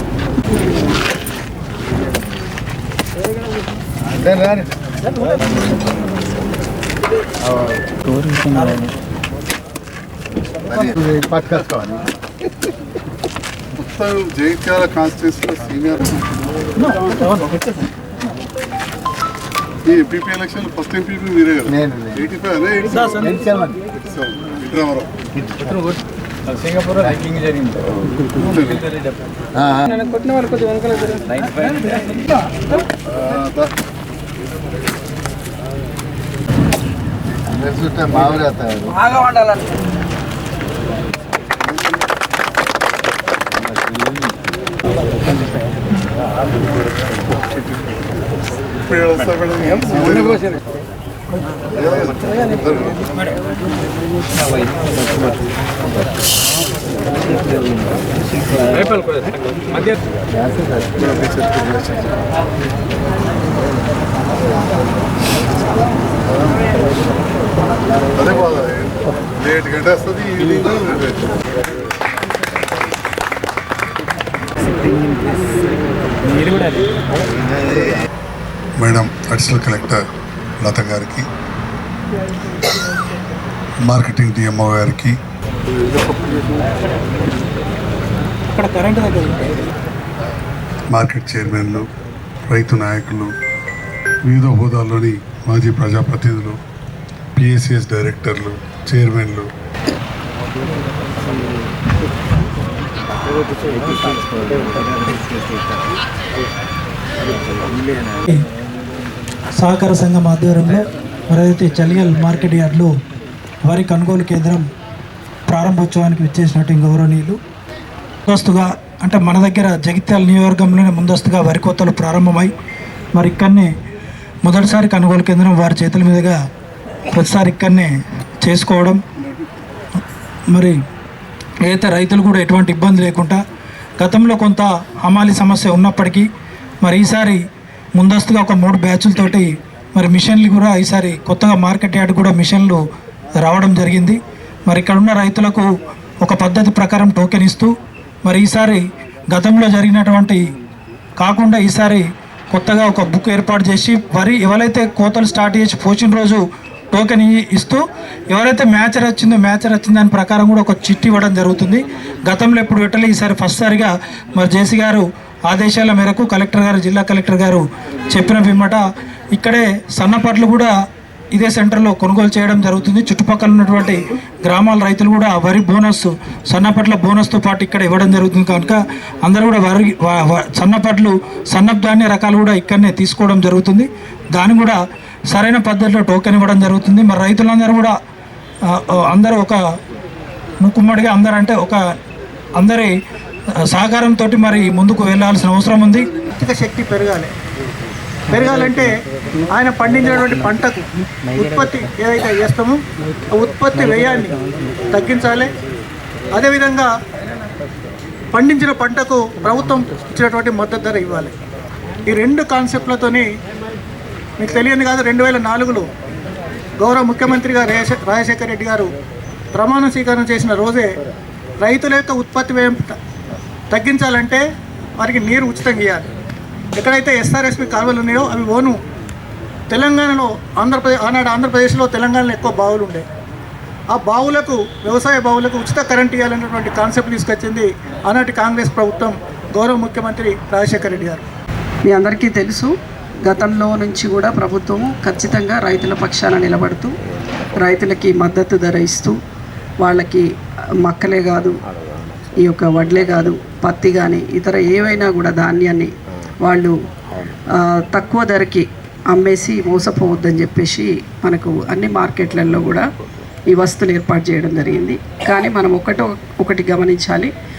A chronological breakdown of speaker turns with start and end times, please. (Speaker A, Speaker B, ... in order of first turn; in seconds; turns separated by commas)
Speaker A: 4.3-4.6, Speaker B: 8.1-8.8, Speaker A: 10.8-11.9, Speaker C: 13.8-16.2, Speaker C: 19.9-23.3, Speaker B: 23.0-23.3, Speaker A: 23.4-23.7, Speaker C: 24.0-25.1, Speaker A: 26.9-27.6, Speaker C: 28.4-28.9, Speaker C: 33.1-33.7, Speaker A: 37.6-39.0, Speaker C: 47.2-48.0, Speaker C: 48.8-50.5, Speaker C: 51.7-53.0, Speaker C: 61.0-61.6, Speaker C: 66.4-66.7, Speaker C: 68.2-71.3, Speaker C: 78.8-80.0, Speaker C: 80.6-81.3, Speaker C: 83.9-85.2, Speaker B: 88.5-89.5, Speaker C: 90.9-91.9, Speaker C: 92.5-93.3, Speaker C: 94.2-96.6, Speaker C: 97.4-99.5, Speaker A: 104.6-105.2, Speaker B: 109.6-112.9, Speaker B: 113.6-114.7, Speaker B: 115.5-117.4, Speaker B: 118.3-122.5, Speaker B: 123.2-123.7, Speaker B: 124.4-126.4, Speaker B: 127.1-127.9, Speaker B: 128.4-129.0, Speaker B: 130.5-130.8, Speaker B: 131.6-133.4, Speaker B: 134.0-136.3, Speaker B: 136.8-137.4, Speaker B: 138.0-142.8, Speaker B: 143.4-145.7, Speaker B: 146.2-147.7, Speaker B: 148.2-150.4, Speaker B: 151.2-170.7, Speaker B: 171.3-184.8, Speaker B: 185.3-187.9, Speaker B: 188.7-189.6, Speaker B: 190.6-191.8, Speaker B: 192.6-192.9, Speaker B: 193.6-196.1, Speaker D: 196.4-197.3, Speaker D: 198.3-198.9, Speaker D: 199.5-202.8, Speaker D: 203.4-204.4, Speaker D: 204.9-205.5, Speaker D: 206.3-206.9, Speaker D: 208.3-211.3, Speaker D: 212.1-213.3, Speaker D: 214.4-215.9, Speaker D: 216.8-218.9, Speaker D: 219.6-220.9, Speaker D: 221.6-223.0, Speaker D: 223.7-224.4, Speaker D: 225.0-226.1, Speaker D: 226.8-228.8, Speaker D: 229.7-233.1, Speaker D: 233.9-241.2, Speaker E: 241.9-242.7, Speaker E: 243.3-246.9, Speaker E: 247.6-249.2, Speaker E: 249.8-250.2, Speaker E: 250.8-251.5, Speaker E: 252.4-255.9, Speaker E: 256.4-256.7, Speaker E: 257.9-262.9, Speaker E: 263.5-267.3